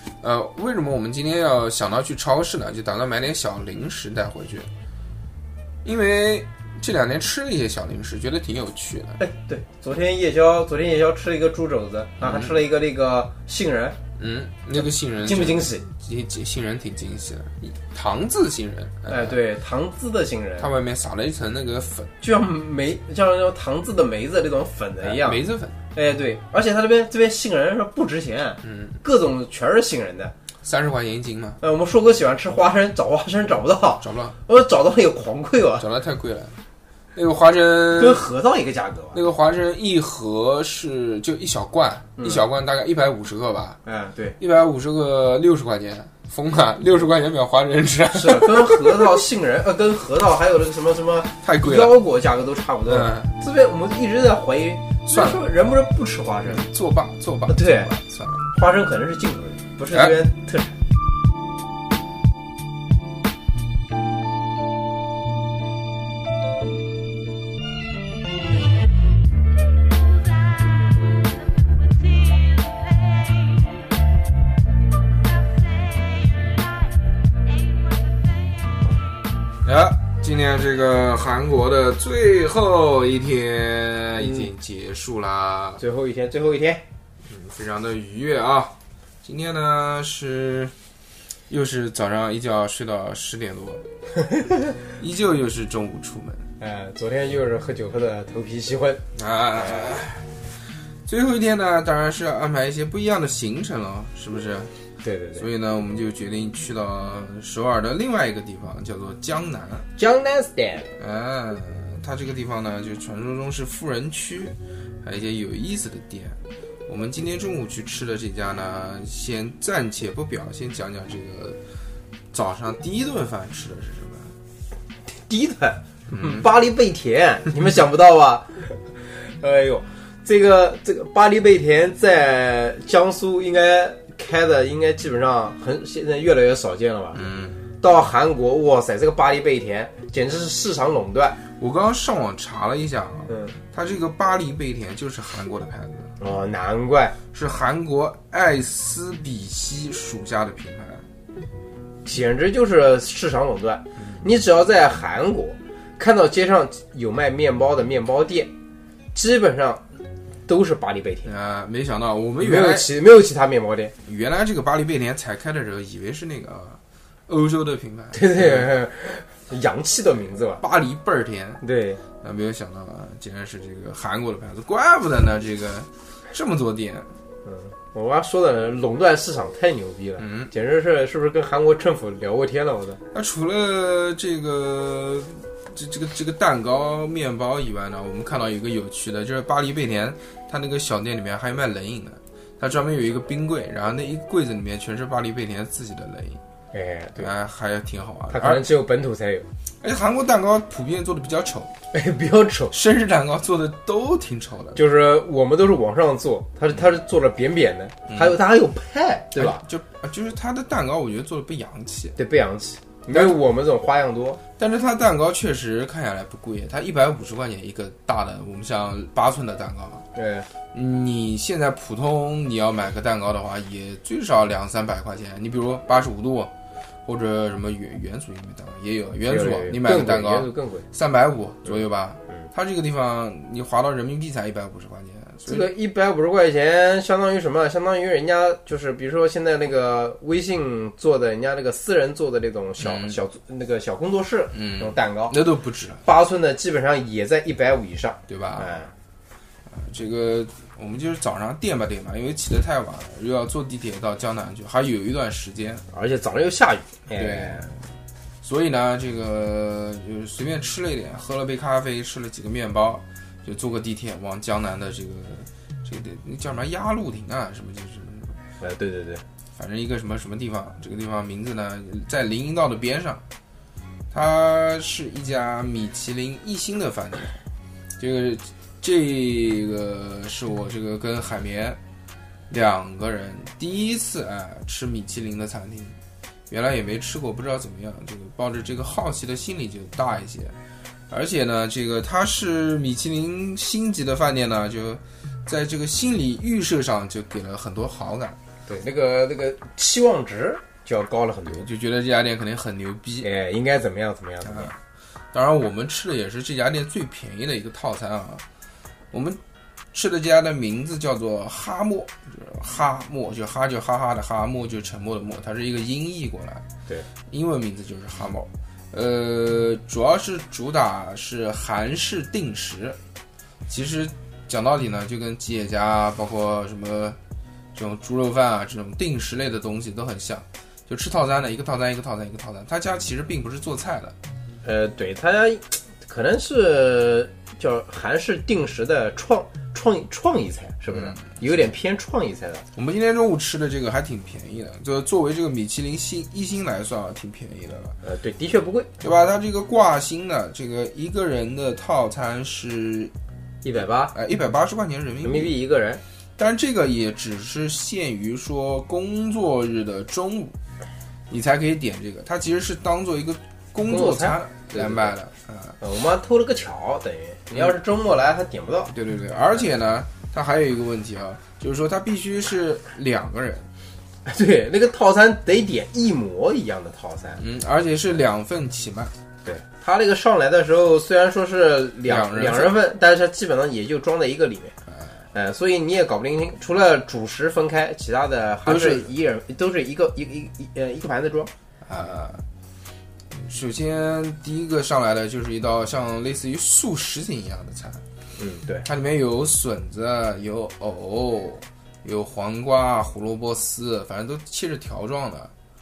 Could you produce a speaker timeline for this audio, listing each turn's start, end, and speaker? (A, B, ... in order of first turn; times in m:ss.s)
0:00.2-0:04.7 A
0:05.8-0:09.2 A
0:09.2-0:14.0 B
0:12.2-0:12.5 A
0:14.2-0:19.4 A
0:15.2-0:15.8 B
0:19.1-0:20.7 B
0:20.6-0:22.1 A
0:22.2-0:25.4 B
0:25.0-0:25.8 A
0:25.9-0:30.3 B
0:28.6-0:29.0 A
0:30.6-0:31.6 A
0:31.6-0:35.9 B
0:34.0-0:34.4 A
0:35.8-0:36.6 A
0:37.2-0:38.2 A
0:37.9-0:39.2 B
0:39.1-0:43.8 A
0:42.2-0:42.5 B
0:43.8-0:44.4 B
0:44.4-0:49.2 A
0:48.1-0:56.7 B
0:51.4-0:52.0 A
0:52.9-0:53.3 A
0:55.1-0:55.4 A
0:56.4-0:58.4 A
0:57.5-0:57.9 B
0:58.5-1:00.7 B
0:59.9-1:00.2 A
1:19.6-1:25.8 A
1:24.2-1:24.5 B
1:25.8-1:26.8 B
1:27.3-1:30.7 A
1:31.5-1:33.8 A
1:35.0-1:36.5 A
1:36.6-1:39.0 B
1:39.2-1:40.3 A
1:39.6-1:40.0 B
1:41.1-1:44.7 A
1:45.0-1:45.4 B
1:45.4-1:49.9 A
1:50.0-1:50.9 B
1:51.0-2:01.6 A
2:02.3-2:04.4 A
2:05.1-2:17.3 B
2:06.1-2:06.5 A
2:17.2-2:17.6 A
2:17.8-2:21.4 B
2:21.6-2:26.1 A
2:23.3-2:23.6 B
2:26.2-2:27.2 B
2:27.3-2:31.0 A
2:32.0-2:38.5 B
2:39.1-2:39.8 B
2:40.5-2:41.3 B
2:41.2-2:42.9 A
2:42.4-2:43.9 B
2:44.0-2:48.7 A
2:48.1-2:50.6 B
2:50.6-2:51.6 A
2:51.6-2:52.0 B
2:52.2-2:57.1 A
2:57.4-3:03.0 B
3:00.2-3:00.5 A
3:03.1-3:16.4 A
3:16.7-3:17.3 B
3:17.2-3:18.7 A
3:18.3-3:19.5 B
3:19.8-3:21.7 A
3:21.9-3:22.8 B
3:22.7-3:24.8 A
3:24.8-3:29.6 B
3:28.1-3:28.4 A
3:29.4-3:32.2 A
3:32.2-3:34.4 B
3:33.1-3:33.4 A
3:34.6-3:40.1 A
3:40.2-3:40.5 B
3:40.7-3:46.5 A
3:47.1-3:55.7 A
3:49.2-3:50.9 B
3:55.5-4:05.4 B
4:02.8-4:03.2 A
4:04.5-4:06.0 A
4:06.0-4:08.9 B
4:08.3-4:08.7 A
4:09.7-4:15.8 A
4:15.9-4:17.7 B
4:17.1-4:17.8 A
4:18.4-4:28.4 A
4:28.6-4:29.2 B
4:29.6-4:33.2 A
4:34.1-4:37.4 A
4:38.0-4:41.8 A
4:42.5-4:46.0 A
4:46.5-4:50.6 A
4:51.1-4:58.4 A
4:58.7-5:01.7 B
5:01.5-5:03.3 A
5:03.2-5:04.7 B
5:04.5-5:04.7 A
5:05.3-5:08.4 A
5:09.1-5:09.4 A
5:09.9-5:16.6 A
5:17.3-5:23.0 A
5:23.7-5:27.2 A
5:27.8-5:34.2 A
5:34.6-5:42.6 B
5:42.8-5:48.0 A
5:48.0-5:48.9 B
5:49.0-5:53.1 A
5:53.6-5:54.2 B
5:54.1-5:55.5 A
5:55.2-5:56.0 B
5:56.4-6:00.6 A
6:01.3-6:05.8 A
6:03.9-6:05.2 B
6:05.8-6:08.9 B
6:08.9-6:13.7 A
6:14.3-6:17.4 B
6:17.4-6:19.1 A
6:19.4-6:24.8 B
6:22.1-6:22.8 A
6:25.3-6:31.5 B
6:28.7-6:29.1 A
6:31.8-6:32.4 A
6:33.3-6:38.0 A
6:38.4-6:38.9 B
6:38.8-6:45.5 A